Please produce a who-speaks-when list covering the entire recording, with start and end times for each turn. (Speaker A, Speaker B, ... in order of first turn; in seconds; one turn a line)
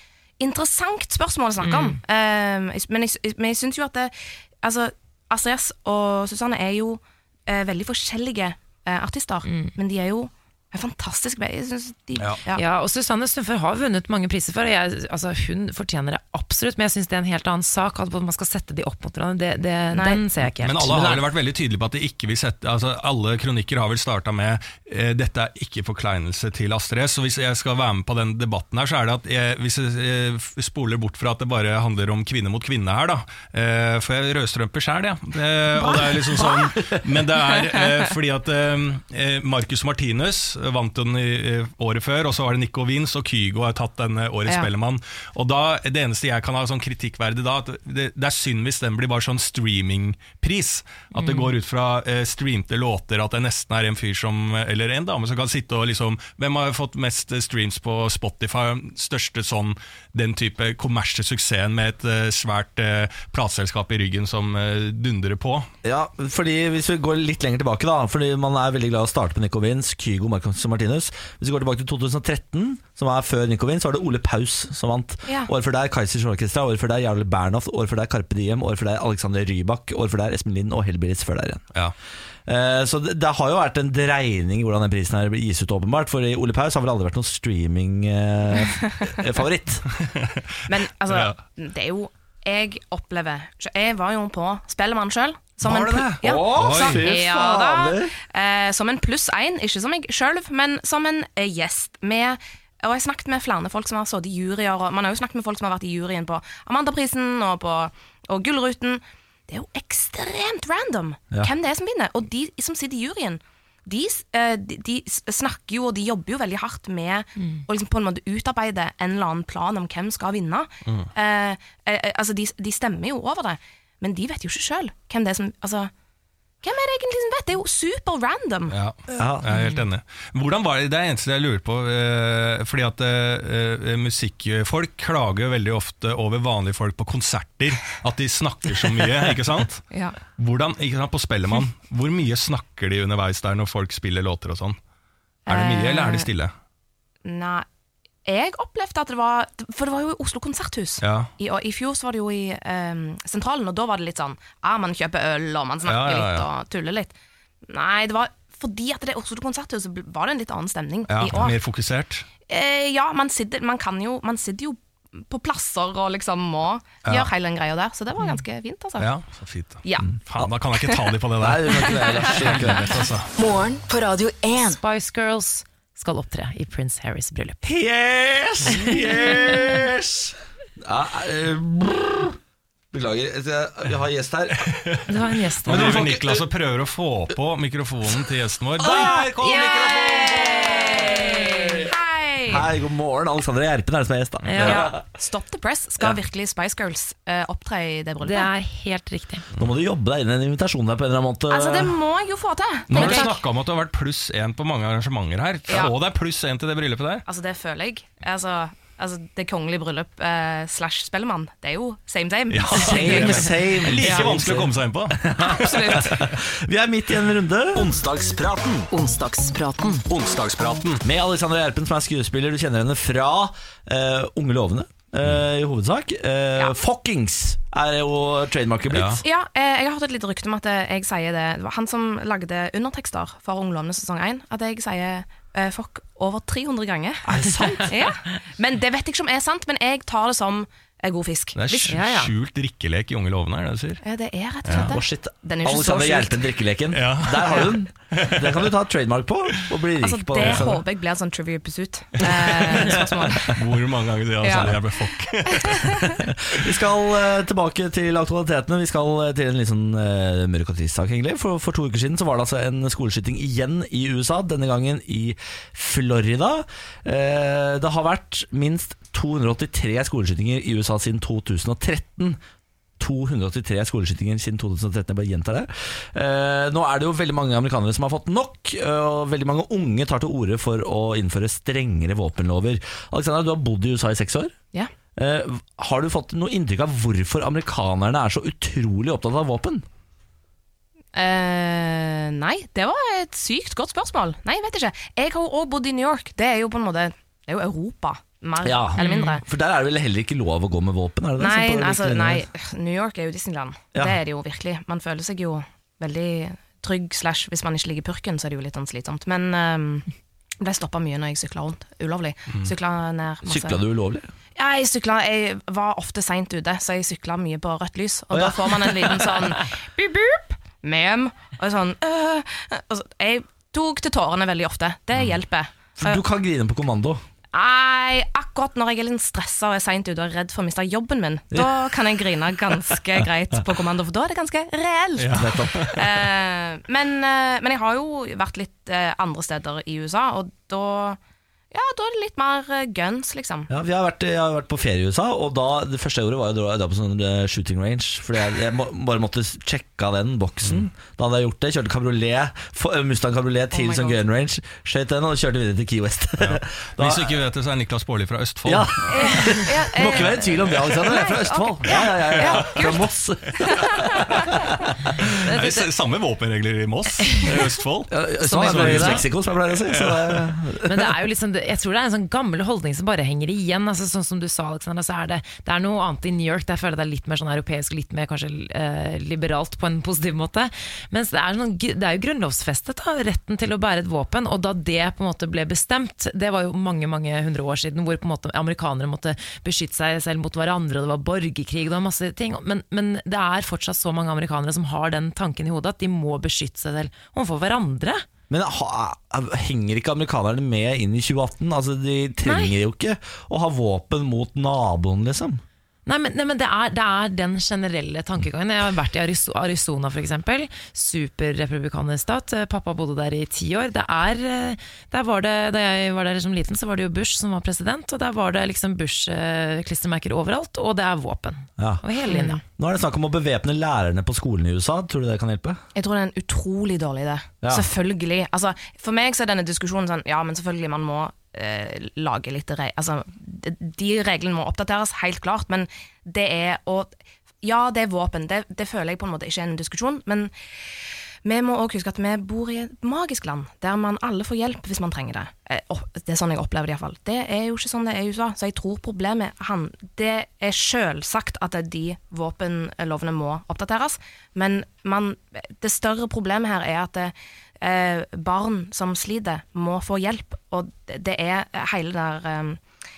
Speaker A: 0.4-12.6
Speaker B: 1.6-2.0
Speaker B: 9.4-9.8
Speaker B: 12.5-21.2
Speaker A: 19.9-20.2
Speaker C: 20.6-65.7
Speaker D: 35.7-37.2
Speaker B: 51.1-51.5
Speaker D: 65.8-81.6
Speaker D: 82.5-89.9
Speaker C: 90.0-90.6
Speaker A: 90.7-125.9
Speaker C: 91.1-91.3
Speaker C: 95.6-97.1
Speaker D: 96.2-98.2
Speaker A: 126.6-128.7
Speaker C: 128.7-144.8
Speaker D: 129.1-129.5
Speaker B: 129.5-129.8
Speaker A: 139.9-140.2
Speaker A: 145.5-146.3
Speaker C: 145.5-146.5
Speaker A: 147.2-147.7
Speaker A: 148.2-157.1
Speaker C: 151.0-151.3
Speaker C: 155.8-156.5
Speaker A: 157.7-161.6
Speaker C: 161.1-162.2
Speaker A: 162.5-169.1
Speaker C: 167.0-167.3
Speaker C: 169.0-173.3
Speaker A: 169.8-170.1
Speaker D: 171.4-172.9
Speaker E: 173.4-174.8
Speaker B: 174.6-177.6
Speaker D: 177.6-182.4
Speaker B: 178.7-179.6
Speaker D: 182.9-184.8
Speaker C: 184.7-185.0
Speaker B: 185.1-186.0
Speaker D: 185.6-186.4
Speaker C: 185.6-190.9
Speaker D: 188.8-190.2
Speaker A: 189.0-192.7
Speaker B: 189.4-189.9
Speaker B: 190.9-191.3
Speaker D: 191.4-191.8
Speaker D: 192.4-194.9
Speaker B: 194.4-194.9
Speaker C: 194.5-194.8
Speaker A: 194.6-198.5
Speaker B: 198.2-199.4
Speaker D: 199.6-202.0
Speaker A: 201.5-203.4
Speaker C: 202.9-207.2
Speaker B: 202.9-203.4
Speaker A: 207.2-214.3
Speaker C: 212.5-216.2
Speaker D: 212.7-218.0
Speaker A: 215.4-216.2
Speaker C: 217.8-218.9
Speaker E: 218.9-220.0
Speaker C: 220.1-221.0
Speaker D: 221.0-229.2
Speaker C: 228.9-229.2
Speaker A: 229.2-242.0
Speaker D: 237.2-238.0
Speaker C: 241.6-244.0
Speaker B: 241.9-242.3
Speaker A: 244.0-246.4
Speaker C: 244.6-244.9
Speaker D: 244.7-250.8
Speaker C: 246.9-248.7
Speaker A: 250.0-253.7
Speaker C: 250.4-250.7
Speaker C: 252.2-256.1
Speaker D: 252.8-253.3
Speaker A: 254.4-254.8
Speaker A: 255.5-256.2
Speaker D: 256.0-272.4
Speaker D: 273.0-284.5
Speaker D: 285.1-289.9
Speaker A: 291.1-299.4
Speaker D: 298.6-302.4
Speaker B: 299.0-299.4
Speaker A: 301.4-310.1
Speaker A: 310.6-313.8
Speaker D: 313.4-314.3
Speaker A: 314.6-326.2
Speaker D: 318.3-319.5
Speaker D: 326.0-327.2
Speaker A: 327.5-341.2
Speaker D: 331.5-332.0
Speaker C: 335.2-336.1
Speaker D: 335.3-335.9
Speaker A: 341.7-343.7
Speaker D: 343.7-357.4
Speaker A: 353.7-354.2
Speaker C: 356.4-359.1
Speaker D: 358.6-365.3
Speaker A: 359.1-364.6
Speaker C: 361.9-362.9
Speaker C: 365.2-369.3
Speaker B: 365.4-365.9
Speaker D: 368.1-371.1
Speaker B: 368.4-369.2
Speaker C: 369.8-370.5
Speaker B: 370.8-398.2
Speaker D: 398.5-405.6
Speaker B: 402.4-402.7
Speaker B: 406.1-422.6
Speaker D: 421.8-422.0
Speaker A: 422.3-422.6
Speaker D: 422.6-425.8
Speaker A: 425.9-440.5
Speaker D: 427.6-427.9
Speaker A: 441.4-462.8